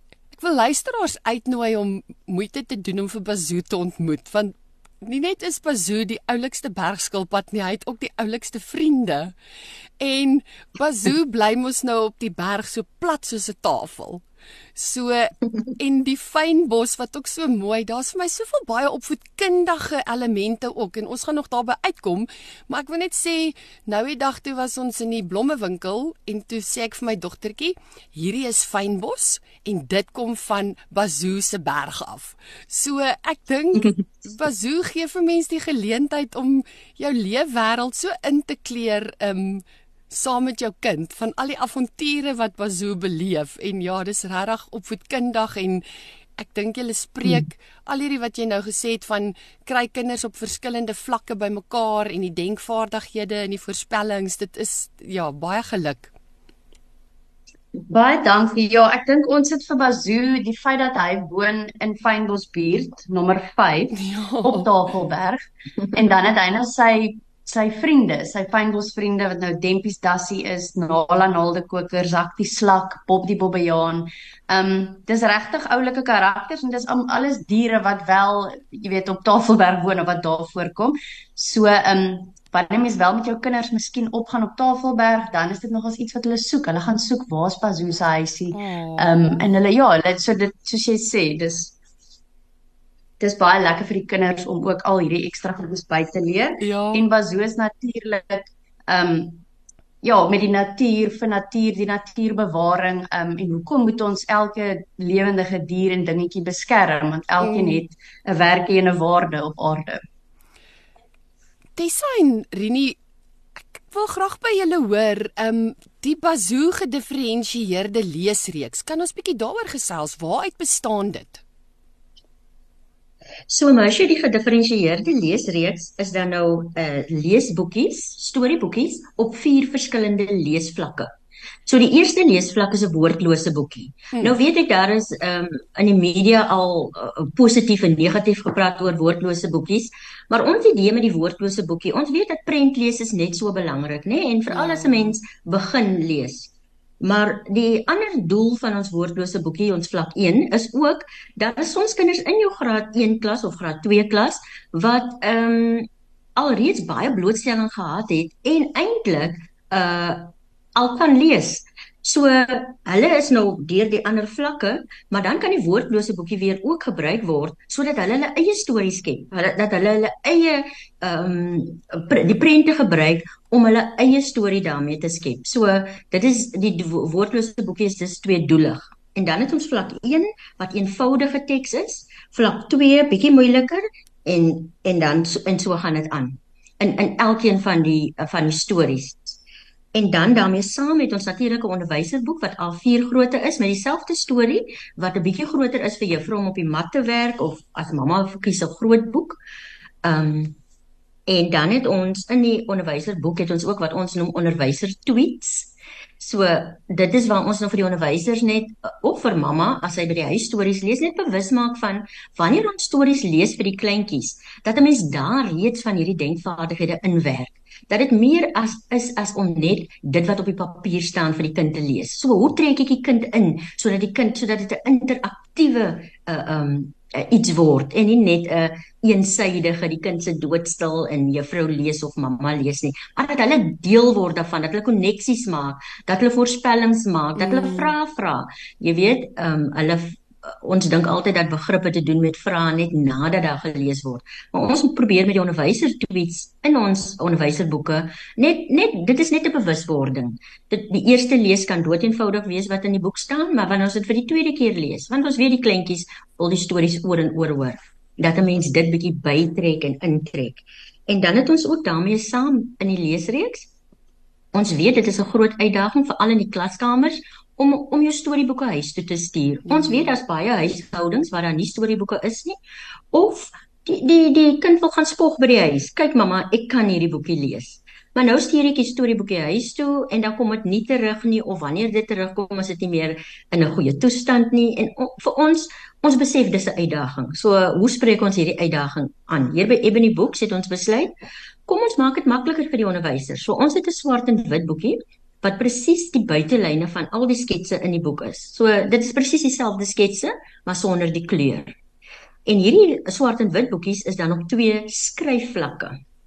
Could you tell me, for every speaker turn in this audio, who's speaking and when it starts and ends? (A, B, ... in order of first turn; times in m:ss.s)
0:00.3-0:09.3 A
0:10.0-0:14.2 A
0:14.7-0:45.8 A
0:46.4-0:56.1 A
0:57.9-1:05.4 B
1:04.0-1:04.7 A
1:05.9-1:31.7 B
1:28.5-1:29.4 A
1:33.2-1:39.4 B
1:36.6-1:37.0 A
1:40.0-1:50.0 B
1:47.4-1:47.8 A
1:51.8-1:53.0 A
1:53.6-2:01.4 A
2:03.5-2:11.1 C
2:11.6-2:26.5 C
2:24.5-2:25.1 A
2:27.0-3:09.4 C
3:09.9-3:19.4 C
3:20.0-3:20.6 C
3:21.3-4:23.7 C
3:57.4-3:57.9 A
4:24.5-4:32.6 C
4:29.7-4:30.1 A
4:33.1-4:51.1 C
4:51.7-5:01.7 C
5:02.4-5:06.0 C